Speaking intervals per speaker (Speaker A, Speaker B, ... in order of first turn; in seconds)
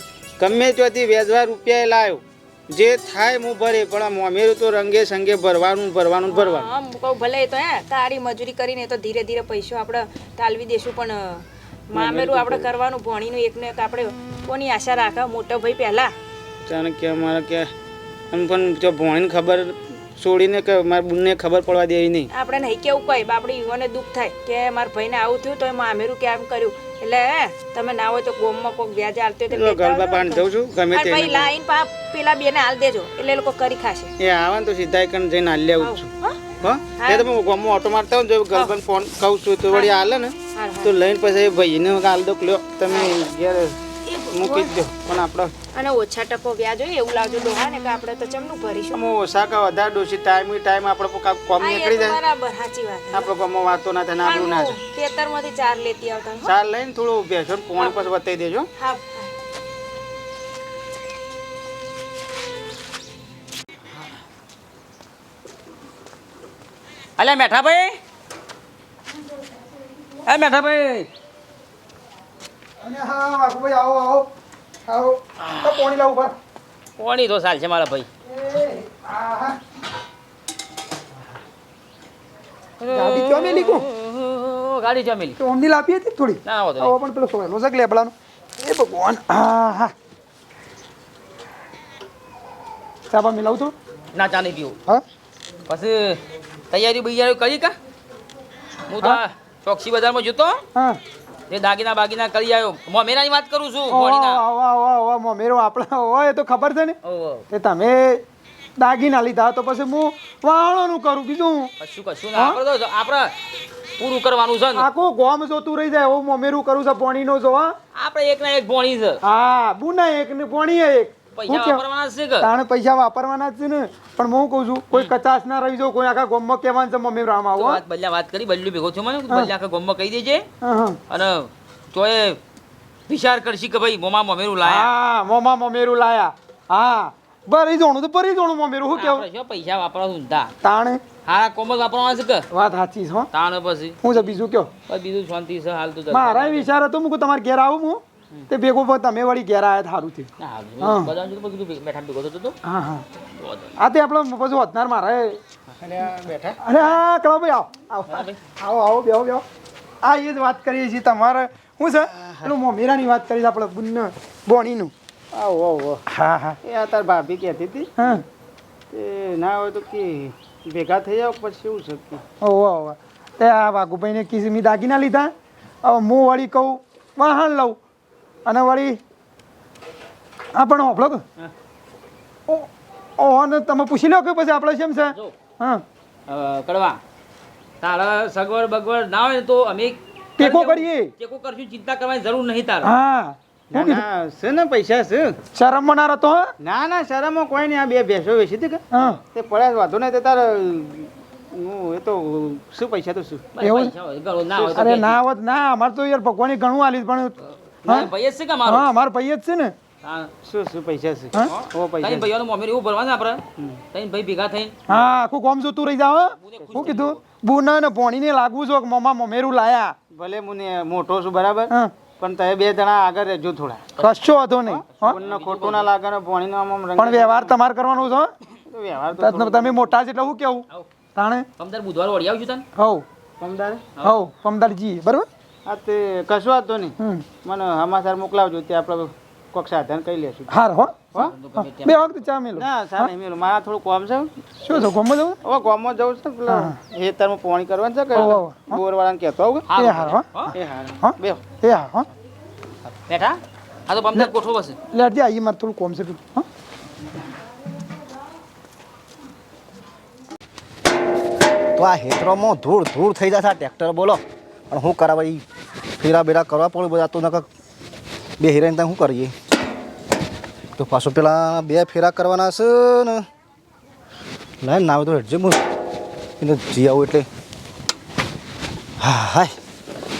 Speaker A: 0.4-6.7, 11.9-12.7, 16.6-17.7, 18.3-22.3, 29.5-31.5, 34.2-36.0, 36.6-43.8, 44.3-45.6, 48.9-52.2, 53.1-54.8, 56.4-58.7, 155.8-156.6, 162.1-162.5, 165.3-166.0, 166.6-168.1, 168.9-172.2, 193.7-195.4, 196.6-203.6, 204.5-204.8, 210.4-212.3, 220.1-223.9, 224.7-227.6, 228.6-229.9, 233.4-234.0, 235.7-240.5, 242.6-244.3, 245.4-249.7, 250.5-251.4
Speaker B: 6.2-16.1, 22.3-34.1, 35.8-37.3, 40.5-40.9, 42.9-43.1, 44.0-44.8, 45.7-49.0, 51.6-53.3, 54.2-56.5, 57.8-58.0, 58.8-59.3
Speaker C: 67.2-68.0, 70.2-71.1, 75.4-75.7, 77.0-78.1, 82.8-85.4, 86.4-86.9, 94.1-94.8, 95.7-97.8, 98.9-100.6, 101.5-104.4, 107.0-107.5, 111.8-113.3, 114.0-114.8, 117.9-119.2, 121.3-122.5, 127.6-130.4, 131.1-132.4, 133.1-134.9, 138.9-140.5, 141.2-142.5, 143.3-144.0, 144.9-146.7, 150.4-152.6, 153.3-153.7, 158.1-158.4, 186.3-187.0, 187.8-192.9, 203.6-205.2, 207.9-208.9, 210.0-210.3, 211.4-214.8, 216.2-217.2, 224.9-225.9, 231.6-232.6, 241.2-242.2, 249.7-250.5, 253.1-254.8
Speaker D: 72.8-74.3, 74.8-76.3, 78.3-79.6, 82.9-83.9, 85.4-89.9, 93.1-93.8, 100.8-101.0, 103.9-107.0, 107.5-108.2, 108.8-111.7, 112.3-112.6, 114.8-117.8, 119.2-121.8, 122.4-127.8, 130.6-131.0, 134.6-139.2, 140.6-141.0, 142.5-143.3, 144.0-144.7, 146.1-150.3, 150.8-151.1, 152.6-153.0, 153.8-155.4, 156.6-159.4, 160.0-164.9, 166.1-166.6, 168.0-168.2, 172.4-175.3, 175.8-177.8, 178.4-179.0, 180.6-181.2, 182.5-185.8, 190.4-191.1, 192.8-194.0, 195.6-196.4, 198.9-199.2, 203.6-203.9, 204.8-208.1, 208.7-209.7, 214.9-219.9, 224.0-225.2, 227.0-228.3, 229.1-231.4, 232.8-233.0, 234.0-235.3, 237.0-237.2, 240.5-243.1, 244.6-245.4, 246.5-246.8, 248.1-248.8, 249.7-250.5, 251.0-252.1, 254.9-256.4
Speaker E: 261.8-265.4, 266.0-267.4, 268.4-269.3, 270.8-273.2, 274.6-275.6, 276.4-277.3, 279.0-279.5